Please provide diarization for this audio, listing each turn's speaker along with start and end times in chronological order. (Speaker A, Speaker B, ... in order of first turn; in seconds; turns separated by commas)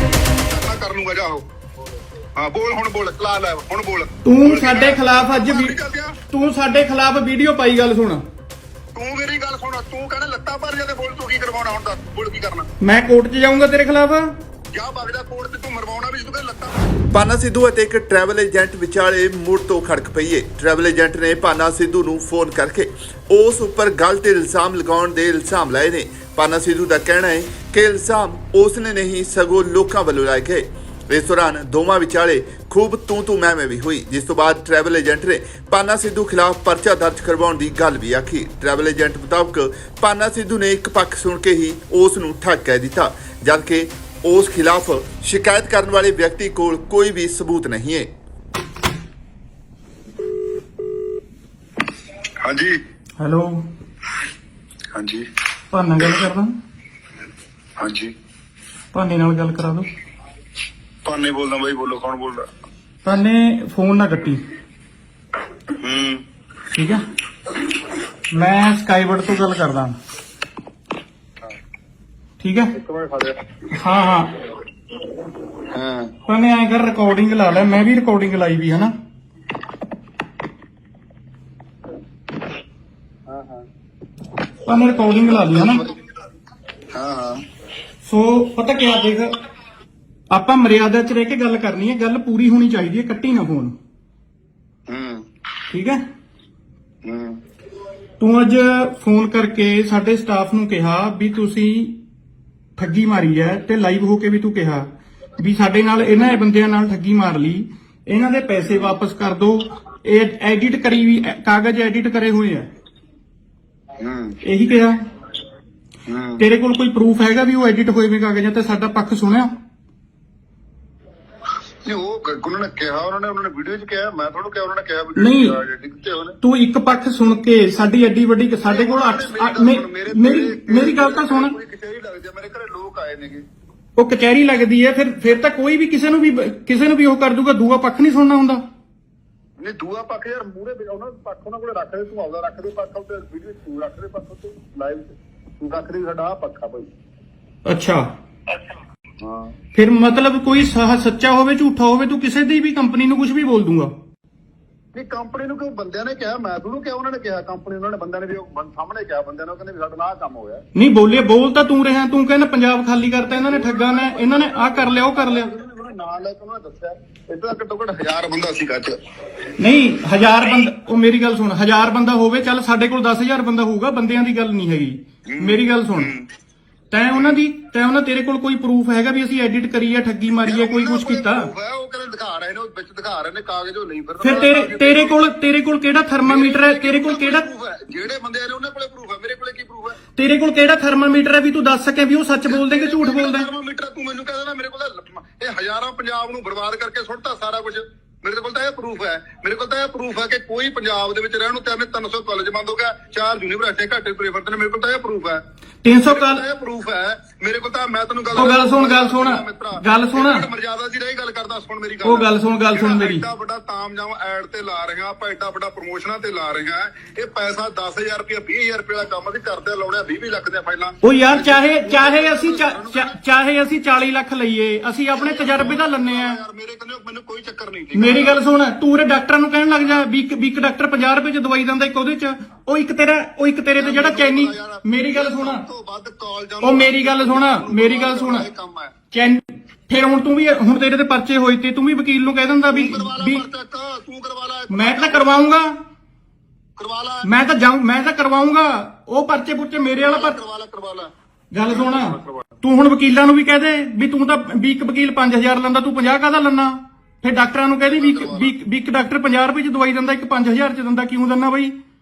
Speaker A: 0.5-1.5, Speaker A: 2.4-6.2, Speaker B: 4.2-5.7, Speaker B: 6.3-8.2, Speaker A: 8.9-12.7, Speaker B: 12.8-14.3, Speaker A: 14.7-16.9, Speaker C: 17.1-48.1, Speaker A: 52.4-52.8, Speaker B: 53.2-53.6, Speaker A: 55.0-55.2, Speaker B: 55.7-56.5, Speaker A: 57.8-58.1, Speaker B: 58.9-59.9, Speaker A: 61.0-62.5, Speaker B: 63.0-64.4, Speaker A: 65.8-66.2, Speaker B: 66.7-67.0, Speaker B: 68.3-70.0, Speaker B: 72.4-72.7, Speaker A: 72.7-73.4, Speaker B: 73.7-74.3, Speaker A: 75.7-76.1, Speaker B: 76.3-78.9, Speaker A: 83.3-83.7, Speaker B: 84.7-85.8, Speaker A: 85.3-85.9, Speaker A: 86.9-87.4, Speaker B: 88.0-89.4, Speaker B: 90.3-93.7, Speaker A: 94.9-95.2, Speaker B: 95.7-96.0, Speaker A: 97.0-97.4, Speaker B: 98.2-102.0, Speaker B: 102.8-104.9, Speaker B: 105.4-112.7, Speaker A: 108.7-109.0, Speaker A: 114.0-114.4, Speaker B: 114.4-115.0, Speaker A: 116.1-116.4, Speaker B: 116.4-119.5, Speaker A: 121.8-126.4, Speaker B: 125.2-125.5, Speaker B: 126.4-131.5, Speaker A: 128.6-133.4, Speaker B: 134.0-138.6, Speaker A: 139.6-146.9, Speaker B: 147.7-148.1, Speaker A: 149.2-149.6, Speaker B: 149.7-153.9, Speaker A: 154.9-160.6, Speaker B: 160.8-165.5, Speaker A: 163.3-169.0, Speaker B: 169.6-176.1, Speaker A: 175.3-176.3, Speaker B: 176.9-181.5, Speaker A: 177.1-177.4, Speaker A: 180.4-185.2, Speaker B: 184.2-187.4, Speaker A: 186.2-190.0, Speaker B: 190.2-193.5, Speaker A: 192.5-205.4, Speaker B: 205.8-206.4, Speaker A: 206.0-223.2, Speaker B: 208.3-210.4, Speaker B: 212.0-213.2, Speaker B: 221.0-226.4, Speaker A: 225.2-228.4, Speaker B: 227.9-235.6, Speaker A: 233.8-238.9, Speaker B: 236.6-238.4, Speaker B: 239.1-243.4, Speaker A: 242.7-245.5, Speaker B: 244.7-245.7, Speaker A: 246.8-247.3, Speaker B: 247.2-250.4, Speaker A: 250.0-251.1, Speaker B: 251.5-261.7, Speaker A: 251.7-252.5, Speaker A: 257.9-258.6